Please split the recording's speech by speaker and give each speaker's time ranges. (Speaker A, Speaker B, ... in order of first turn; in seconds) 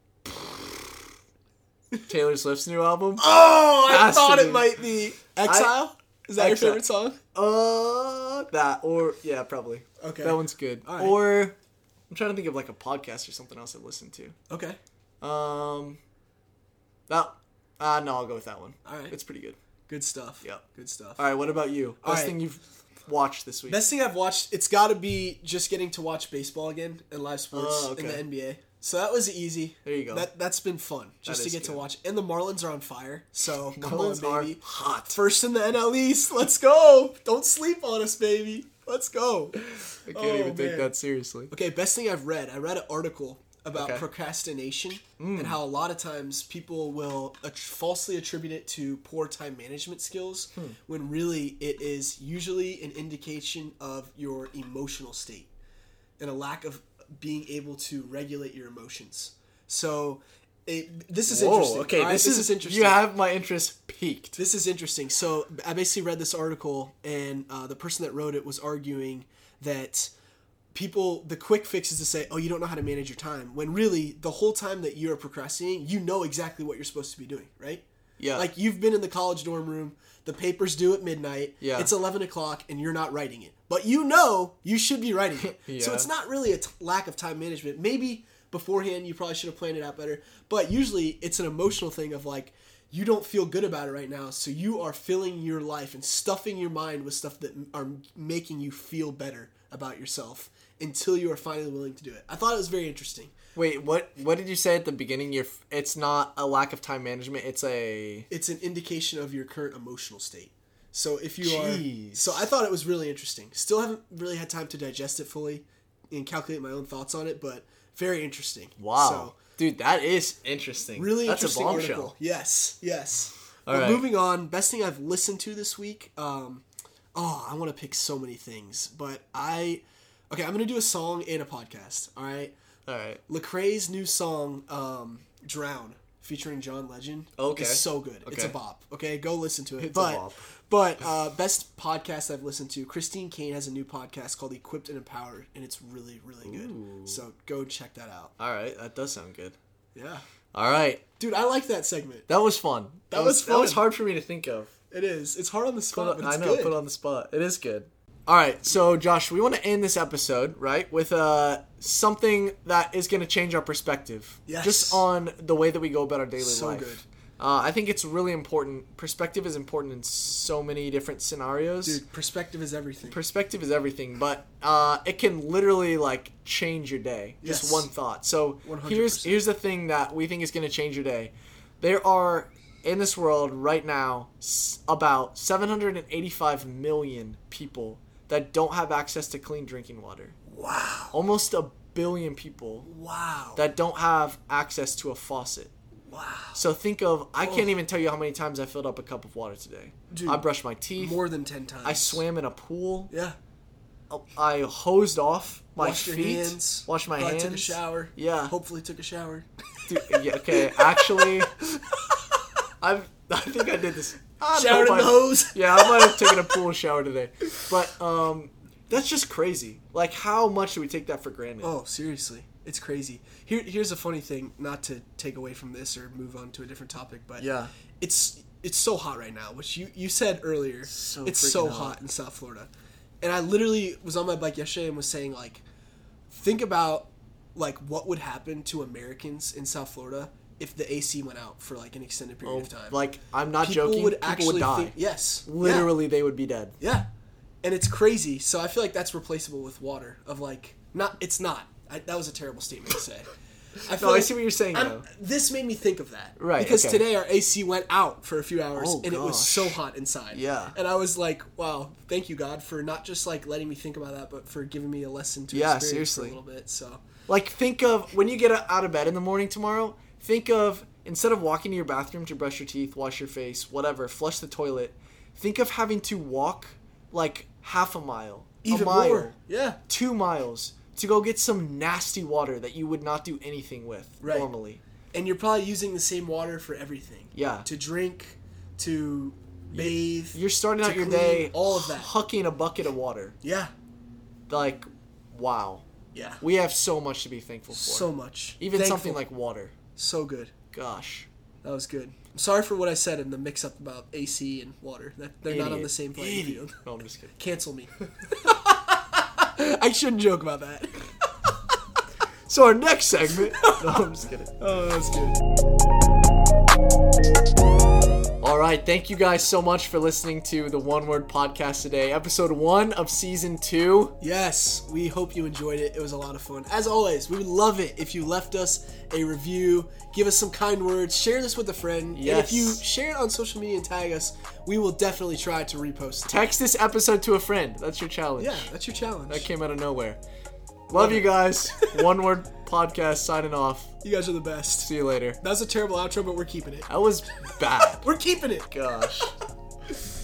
Speaker A: 0.2-1.1, 2.1-4.7, 5.4-5.8, 6.4-11.6, 12.1-14.3, 15.2-16.0, 17.1-19.6, 21.2-23.8, 27.5-28.3, 29.9-30.3, 31.3-31.8, 33.5-35.2, 40.1-41.5, 43.7-44.0, 45.2-45.6, 61.3-64.4, 78.2-78.5, 81.6-81.9, 85.4-86.1, 103.6-108.3, 111.4-112.5, 118.8-122.1, 123.7-124.1, 132.9-133.2, 137.4-138.6, 139.8-140.5, 146.4-147.2, 148.4-149.6, 150.5-151.0, 152.3-154.7, 155.9-172.0, 173.0-190.4, 191.1-192.9, 193.6-195.7, 196.6-201.2, 201.8-203.1, 204.1-208.5, 209.9-211.5, 212.8-221.7, 227.4-227.7, 230.9-232.0, 242.4-246.8, 253.9-255.1, 256.4-257.1, 258.8-259.8, 260.3-260.8, 265.5-266.4, 267.3-279.4, 279.9-284.8, 287.3-287.7, 289.7-293.4, 294.5-295.9, 296.4-299.8, 300.7-301.3, 305.4-307.4, 312.5-314.6, 318.4-324.1, 332.1-332.8, 336.3-338.7, 339.3-340.2, 340.9-343.9, 344.8-345.4, 346.9-348.1, 348.7-349.3
Speaker B: 3.2-7.2, 10.0-11.2, 14.5-14.8, 18.9-19.2, 19.9-21.2, 22.0-22.4, 23.7-40.9, 41.5-55.5, 56.2-63.0, 64.4-70.1, 70.7-103.3, 108.3-119.4, 121.0-126.6, 127.2-132.6, 133.3-148.3, 149.9-150.2, 151.2-152.3, 153.1-153.9, 154.9-156.8, 164.5-165.1, 166.4-167.0, 171.8-173.2, 177.4-177.9, 178.6-179.4, 190.5-191.2, 192.8-193.6, 196.1-196.6, 197.4-197.7, 200.1-200.4, 201.0-202.2, 203.1-203.4, 205.8-209.5, 210.5-211.3, 214.5-216.6, 221.6-227.5, 228.0-232.7, 233.2-235.6, 236.3-243.0, 243.6-245.9, 246.8-247.1, 247.6-253.3, 253.8-267.0, 278.6-279.8, 284.2-284.5, 285.1-292.1, 293.4-293.7, 296.1-296.4, 297.7-299.2, 300.0-300.5, 301.6-306.8, 307.4-311.1, 314.6-315.4, 324.2-336.4, 338.4-339.5, 340.9-342.0, 344.0-344.9, 345.4-346.9, 348.0-348.7